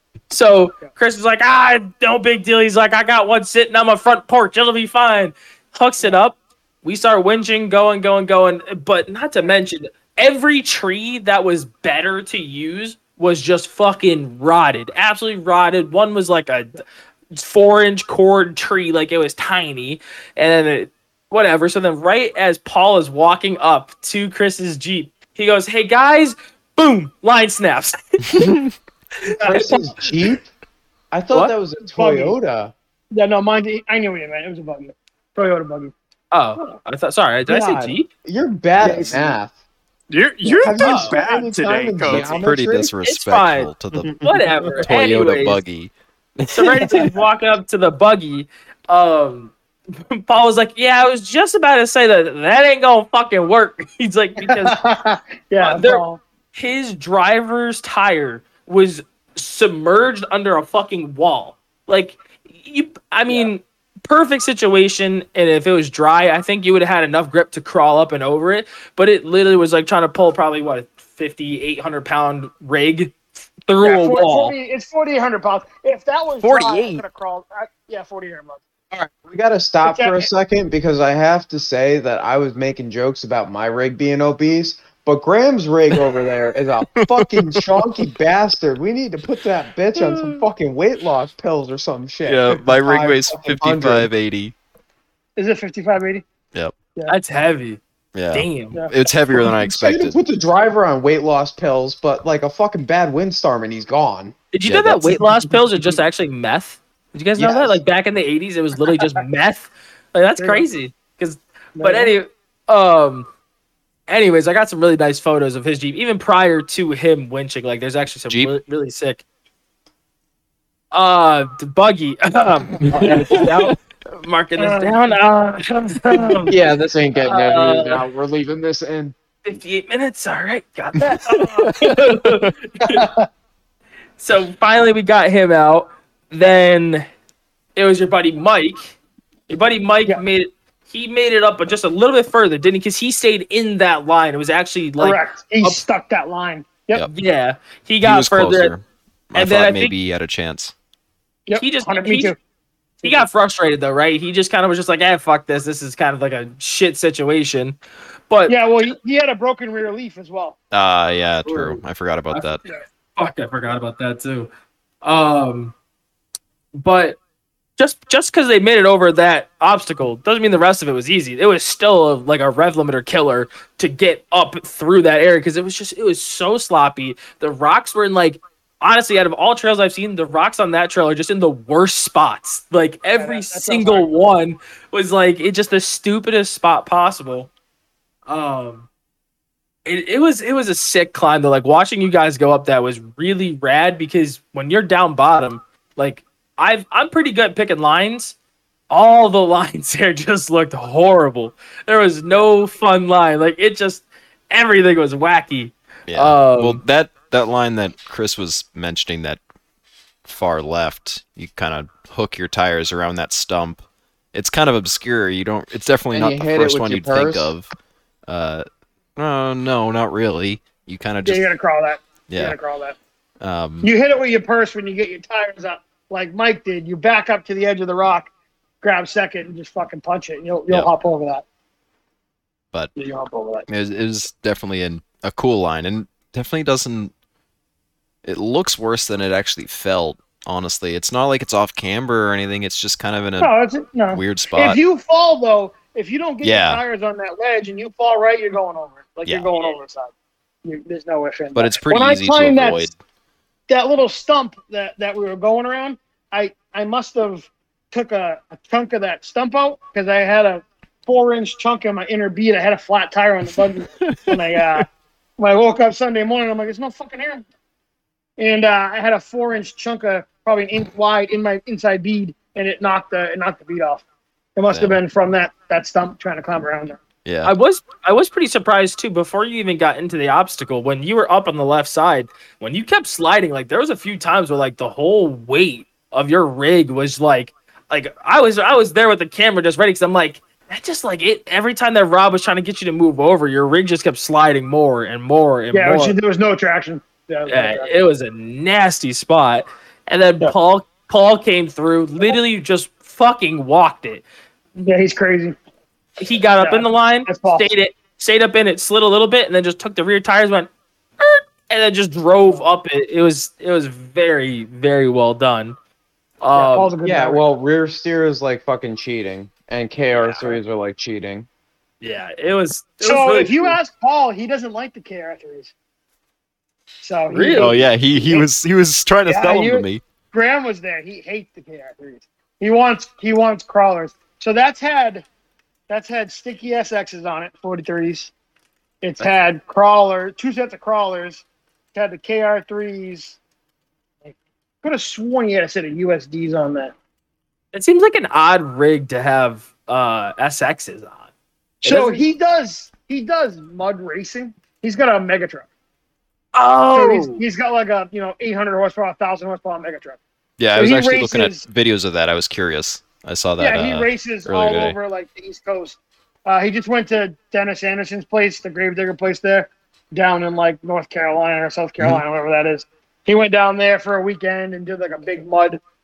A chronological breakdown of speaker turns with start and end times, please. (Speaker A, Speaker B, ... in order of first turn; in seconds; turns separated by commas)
Speaker A: 0.3-16.8, Speaker A: 17.3-28.6, Speaker B: 28.4-28.7, Speaker A: 29.2-30.0, Speaker C: 29.4-30.5, Speaker C: 31.1-32.7, Speaker D: 32.0-32.4, Speaker D: 33.1-35.9, Speaker A: 36.3-38.1, Speaker C: 37.5-39.5, Speaker D: 38.8-39.3, Speaker A: 38.9-39.1, Speaker E: 40.1-42.5, Speaker C: 40.5-42.9, Speaker A: 40.7-41.1, Speaker B: 42.4-44.2, Speaker A: 43.0-43.7, Speaker C: 44.0-44.4, Speaker A: 44.2-45.6, Speaker B: 44.9-46.9, Speaker A: 46.5-49.5, Speaker A: 50.1-54.8, Speaker D: 54.5-56.2, Speaker A: 55.6-56.0, Speaker A: 56.5-74.5, Speaker D: 73.8-78.6, Speaker B: 76.4-77.0, Speaker C: 78.9-94.1, Speaker D: 79.8-80.3, Speaker B: 87.0-87.7, Speaker B: 90.0-90.5, Speaker B: 92.2-94.5, Speaker D: 95.4-96.2, Speaker A: 97.1-97.8, Speaker B: 98.2-100.2, Speaker A: 98.3-98.8, Speaker C: 99.3-104.3, Speaker A: 104.5-113.3, Speaker B: 104.7-105.3, Speaker C: 107.4-107.8, Speaker D: 110.4-110.7, Speaker D: 111.8-112.1, Speaker A: 114.1-119.2, Speaker A: 120.9-125.2, Speaker B: 122.8-123.3, Speaker D: 124.6-126.5, Speaker A: 126.0-126.5, Speaker C: 126.5-129.2, Speaker A: 127.2-128.1, Speaker A: 129.4-133.1, Speaker B: 131.3-132.5, Speaker D: 132.8-133.3, Speaker A: 134.2-137.1, Speaker A: 137.8-139.0, Speaker A: 139.5-145.8, Speaker D: 145.0-147.1, Speaker A: 147.1-148.8, Speaker B: 148.0-150.7, Speaker A: 149.3-149.9, Speaker D: 151.5-152.4, Speaker A: 151.6-152.3, Speaker A: 153.0-157.8, Speaker A: 158.3-158.6, Speaker D: 158.5-160.6, Speaker B: 160.7-162.6, Speaker A: 161.4-161.8, Speaker A: 163.2-164.5, Speaker A: 165.0-165.7, Speaker A: 166.8-167.2, Speaker A: 167.8-187.5, Speaker D: 183.2-184.1, Speaker A: 188.3-188.9, Speaker A: 189.9-198.3, Speaker A: 198.9-206.8, Speaker B: 206.1-209.4, Speaker B: 210.2-213.8, Speaker B: 214.3-217.7, Speaker C: 216.1-217.5, Speaker B: 218.3-218.7, Speaker B: 219.2-221.5, Speaker D: 221.2-223.0, Speaker B: 222.3-222.6, Speaker B: 223.4-223.9, Speaker D: 223.8-228.3, Speaker D: 228.8-231.4, Speaker D: 233.0-233.7, Speaker B: 233.7-237.1, Speaker B: 238.2-243.5, Speaker D: 243.4-250.1, Speaker B: 244.1-244.8, Speaker B: 246.4-246.8, Speaker D: 250.6-252.9, Speaker B: 251.5-252.9, Speaker D: 253.7-264.9, Speaker B: 264.0-264.8, Speaker D: 265.4-267.5, Speaker D: 268.4-274.0, Speaker D: 274.6-277.0, Speaker B: 274.7-275.0, Speaker B: 277.2-277.5, Speaker A: 277.4-296.2, Speaker D: 295.7-297.9, Speaker A: 297.5-304.2, Speaker D: 304.8-305.6, Speaker A: 306.2-315.8, Speaker D: 306.6-307.7, Speaker A: 316.4-316.9, Speaker D: 316.5-317.4, Speaker C: 317.0-321.5, Speaker D: 320.1-320.6, Speaker A: 322.0-323.8, Speaker D: 323.0-325.7, Speaker D: 327.0-328.5, Speaker A: 327.3-327.7, Speaker B: 327.6-330.0, Speaker D: 329.3-335.2, Speaker D: 335.9-338.3, Speaker D: 339.0-343.4, Speaker D: 344.2-346.9, Speaker A: 347.7-351.3, Speaker A: 351.8-352.2, Speaker D: 351.8-355.7, Speaker A: 356.5-357.4, Speaker D: 356.9-360.2, Speaker B: 360.6-365.0, Speaker D: 360.7-361.6, Speaker D: 363.6-375.8